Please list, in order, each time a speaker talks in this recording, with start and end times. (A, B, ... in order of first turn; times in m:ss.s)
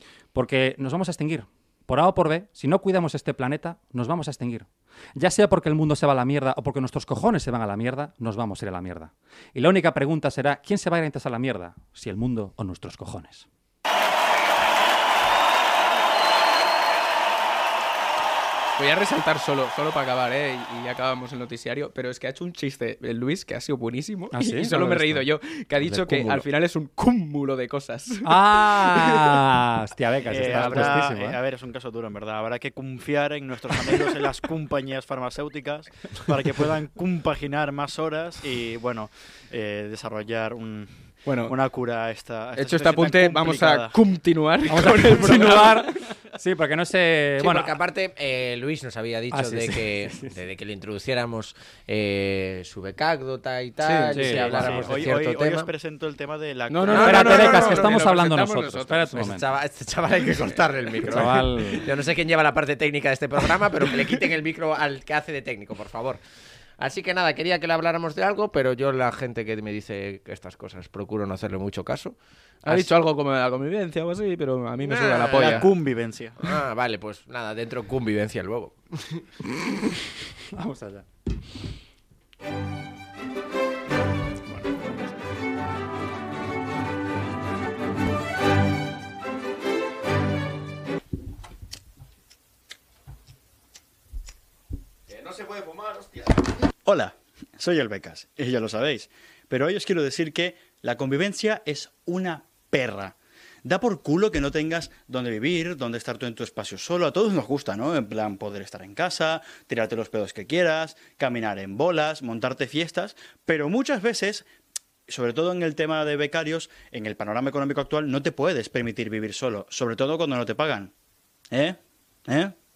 0:00.3-0:13.5 A
0:18.8-0:29.4 B
0:24.3-0:25.3 A
0:25.8-0:26.4 A
0:28.2-0:31.4 A
0:30.3-0:44.0 C
0:30.4-0:31.0 B
0:41.3-0:41.5 B
0:42.6-0:46.0 B
0:44.7-0:47.8 A
0:47.4-0:55.7 D
0:49.3-0:50.3 A
0:53.8-0:54.6 B
0:54.1-0:55.0 A
0:54.6-0:57.7 C
0:56.7-0:59.2 B
0:56.9-0:57.8 D
0:57.0-0:59.4 A
0:59.1-1:06.2 D
1:01.0-1:01.9 A
1:06.8-1:12.2 D
1:12.6-1:15.7 B
1:14.8-1:15.7 D
1:15.3-1:16.3 C
1:16.4-1:19.2 D
1:20.5-1:21.0 A
1:36.9-1:54.5 E
1:55.1-2:00.9 E
2:01.5-2:02.5 E